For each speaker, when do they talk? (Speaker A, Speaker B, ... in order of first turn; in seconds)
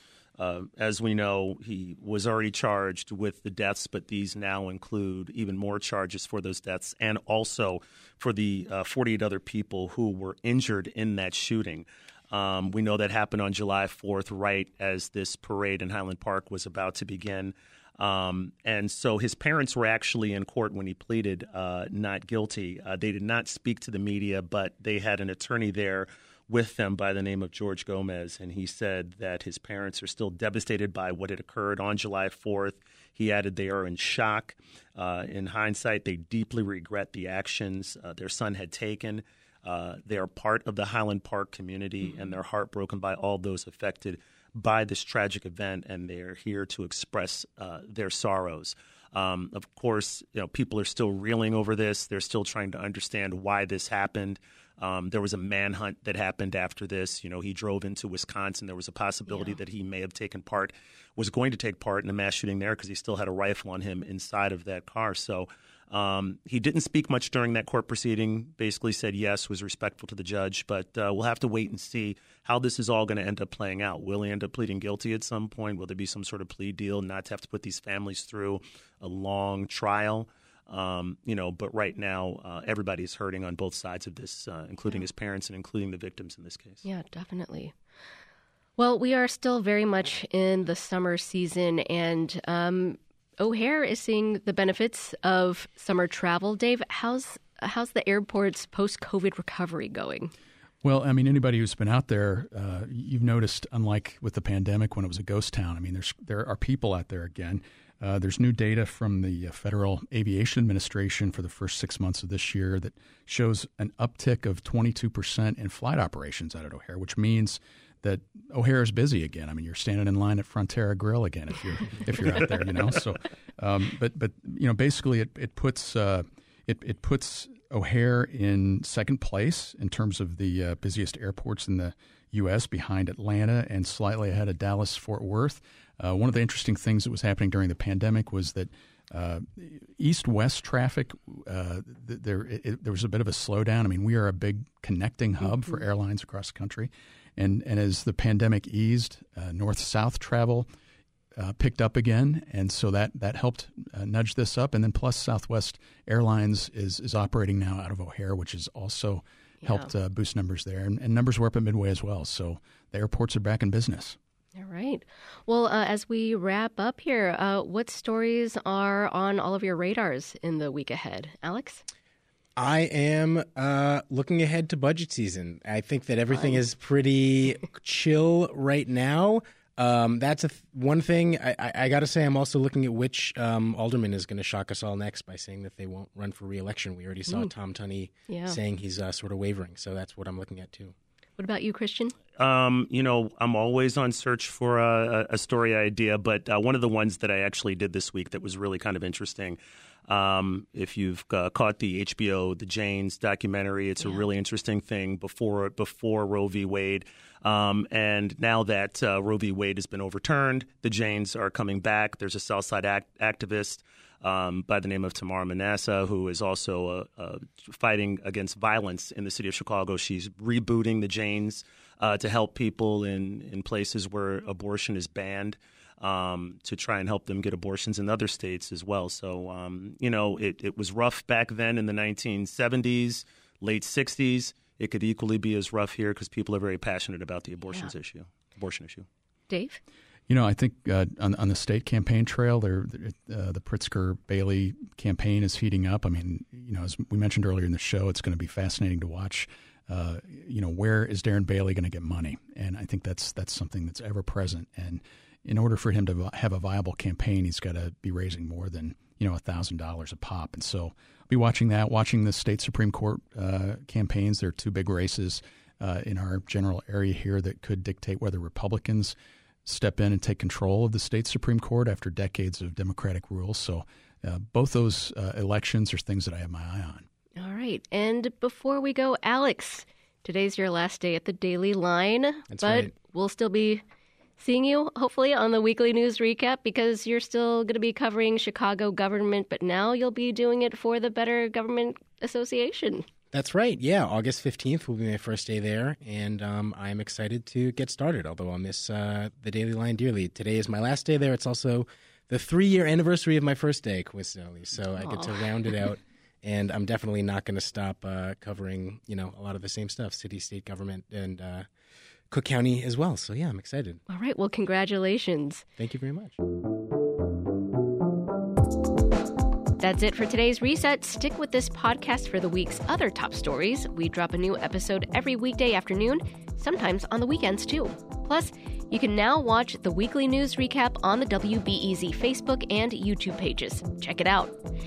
Speaker A: 0.4-86.8, 192.4-239.1
Speaker B: 59.3-59.6, 86.8-87.7, 88.8-100.3, 159.6-159.9, 164.6-171.8, 176.3-176.6, 188.3-188.6, 191.4-192.2, 239.5-239.8, 277.4-283.8, 284.4-293.1, 305.0-305.4, 314.1-315.6, 319.8-334.5
Speaker C: 100.8-150.7, 151.4-164.2, 240.3-277.1
Speaker D: 172.6-190.9, 282.5-282.9, 293.3-311.7, 312.3-314.0, 315.8-316.4